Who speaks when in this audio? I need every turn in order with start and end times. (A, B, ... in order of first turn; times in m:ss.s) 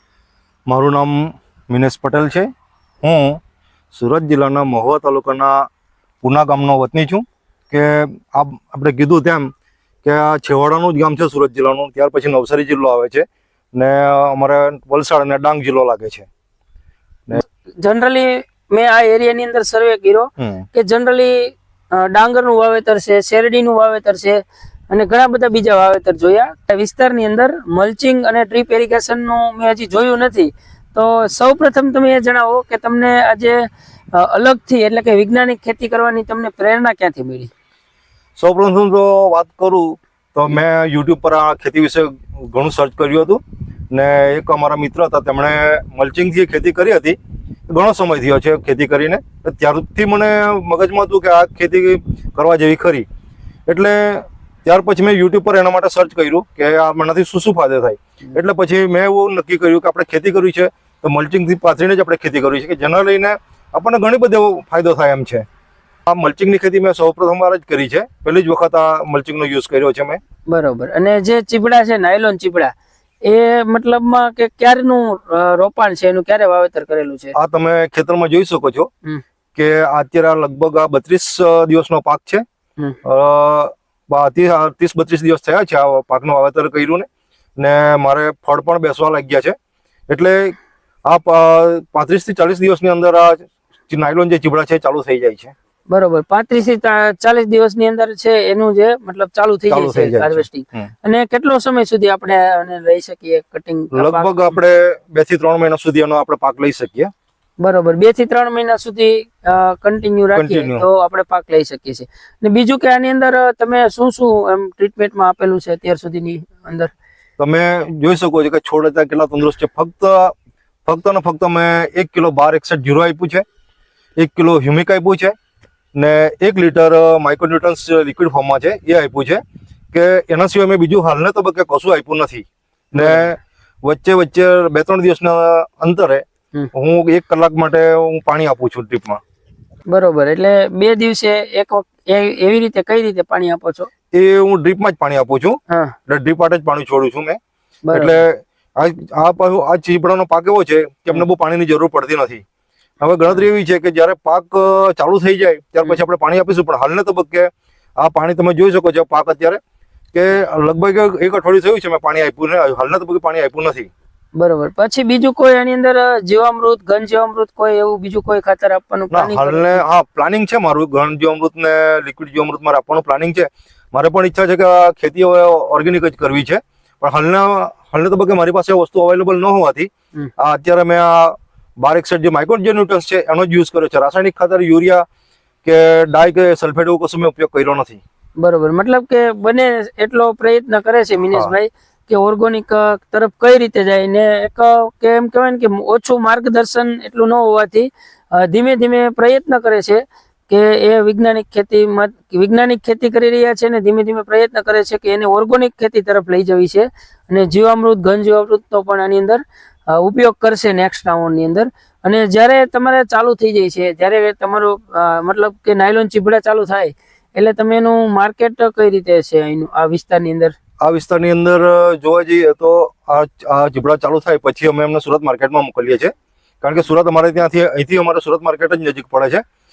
0:00.7-0:02.5 A
0:03.0-0:03.4 A
0:03.9-0:05.7 A
0:06.2-0:09.5 A
0:10.0-0:16.3 A
0:17.3-0:37.5 B
0:20.4-0:20.6 A
0:38.4-0:53.1 A
0:53.7-1:05.4 A
1:06.1-1:10.2 A
1:10.5-1:12.7 B
1:13.2-1:17.4 B
1:17.3-1:18.9 A
1:19.6-1:22.4 A
1:23.0-1:27.1 A
1:27.6-1:29.6 A
1:30.1-1:35.5 A
1:35.9-1:44.5 B
1:39.7-1:40.9 A
1:43.9-1:47.1 A
1:47.6-1:56.9 B
1:50.4-1:50.9 A
1:57.4-2:00.3 A
2:00.9-2:03.4 A
2:04.2-2:05.3 A
2:06.0-2:09.4 A
2:09.9-2:19.2 A
2:13.0-2:13.3 B
2:19.9-2:23.9 B
2:24.1-2:27.4 A
2:25.7-2:26.0 B
2:27.9-2:28.2 B
2:27.9-2:32.4 A
2:33.0-2:39.6 A
2:40.1-2:43.9 A
2:44.4-2:49.8 B
2:49.1-3:05.0 A
3:05.6-3:08.0 A
3:08.4-3:40.6 B
3:40.8-3:49.4 A